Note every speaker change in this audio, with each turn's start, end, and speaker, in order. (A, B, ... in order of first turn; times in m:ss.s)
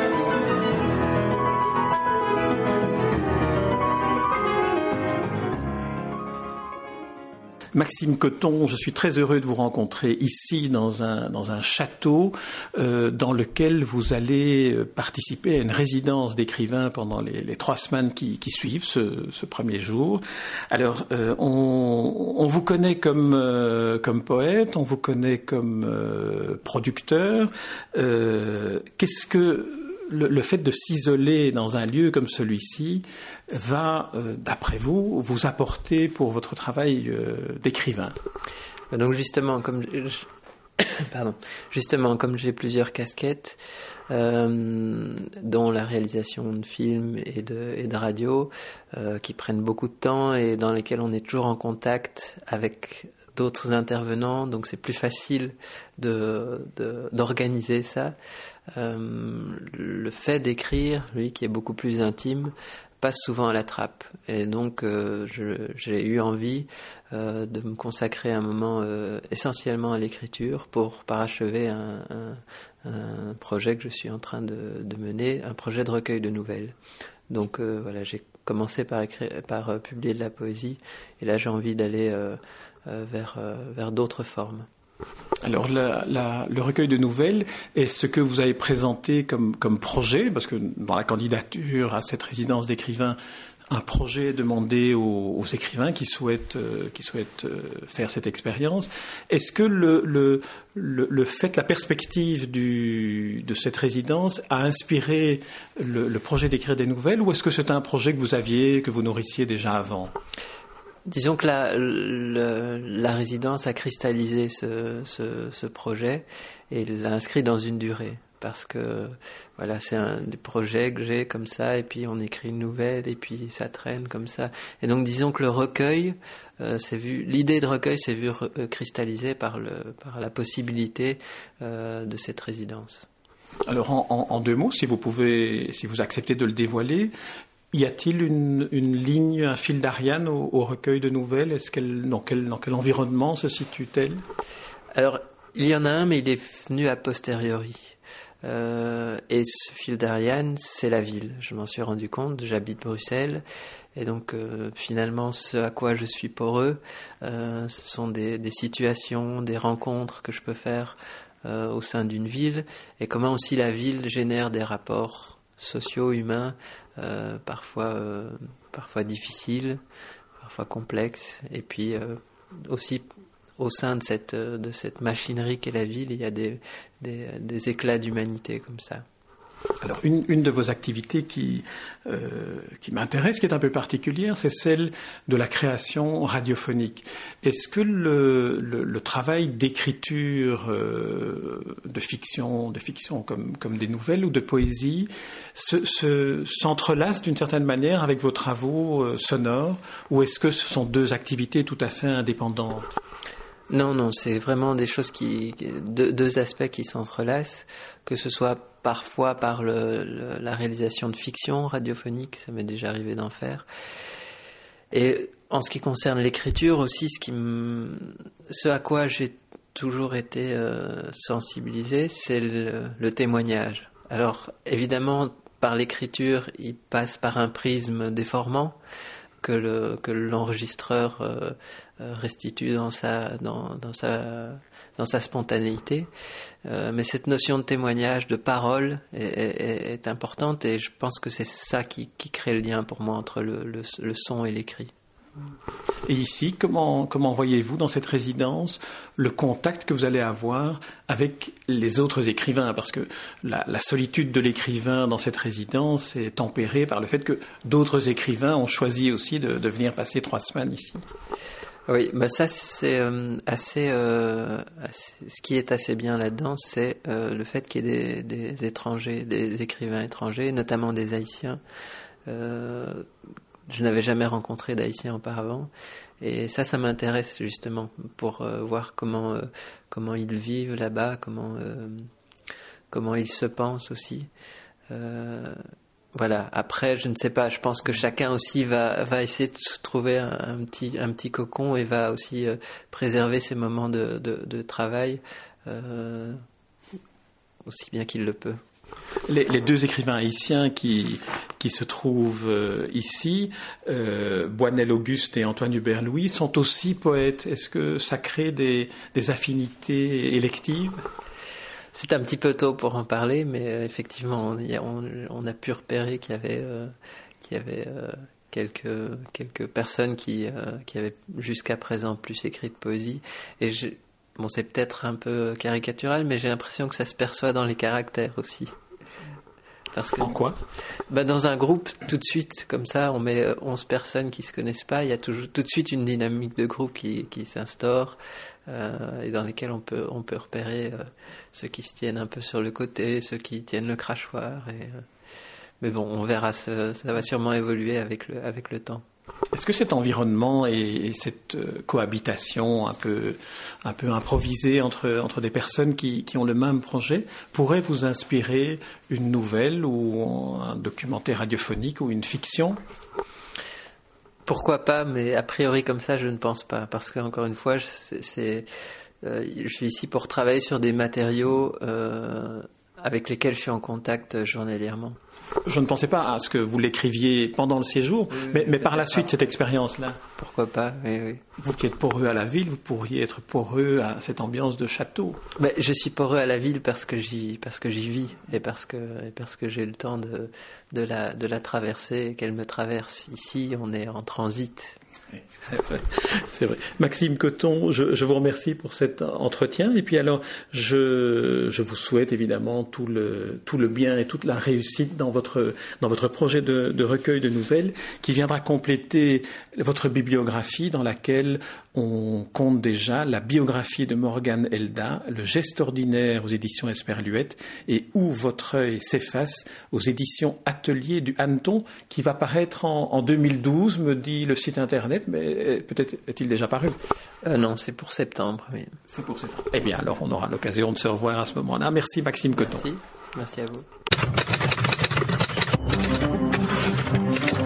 0:07.7-0:38.2 A
0:38.9-0:40.3 B
0:40.8-0:58.1 B
0:58.7-1:16.8 B
1:17.3-1:24.7 B
1:25.4-1:33.2 A
1:33.7-1:50.1 A
1:51.1-2:13.1 B
2:13.7-2:17.1 A
2:17.7-2:24.2 A
2:24.9-2:33.4 B
2:33.9-2:49.8 B
2:50.4-2:53.1 B
2:53.6-2:59.0 B
2:59.8-3:22.9 A
3:23.7-3:33.6 B
3:34.9-3:48.8 B
3:49.4-3:56.1 B
3:56.6-4:04.9 B
4:06.0-4:21.0 A
4:21.9-4:31.6 B
4:32.3-4:33.0 B
4:33.7-4:42.1 B
4:42.9-4:44.3 B
4:44.9-4:45.6 B
4:46.1-4:56.4 B
4:57.6-4:58.6 B
4:59.3-5:11.0 A
5:11.9-5:28.7 B
5:29.9-5:30.4 B
5:30.2-5:30.6 A
5:31.1-5:45.0 B
5:45.8-5:49.0 B
5:49.5-6:02.8 A
6:04.4-6:08.7 B
6:09.2-6:15.2 B
6:15.6-6:20.2 A
6:18.3-6:19.5 B
6:20.4-6:21.4 B
6:21.6-6:25.4 A
6:25.6-6:35.0 B
6:35.5-7:07.0 A
7:07.4-7:09.0 B
7:09.1-7:12.8 A
7:12.5-7:13.8 B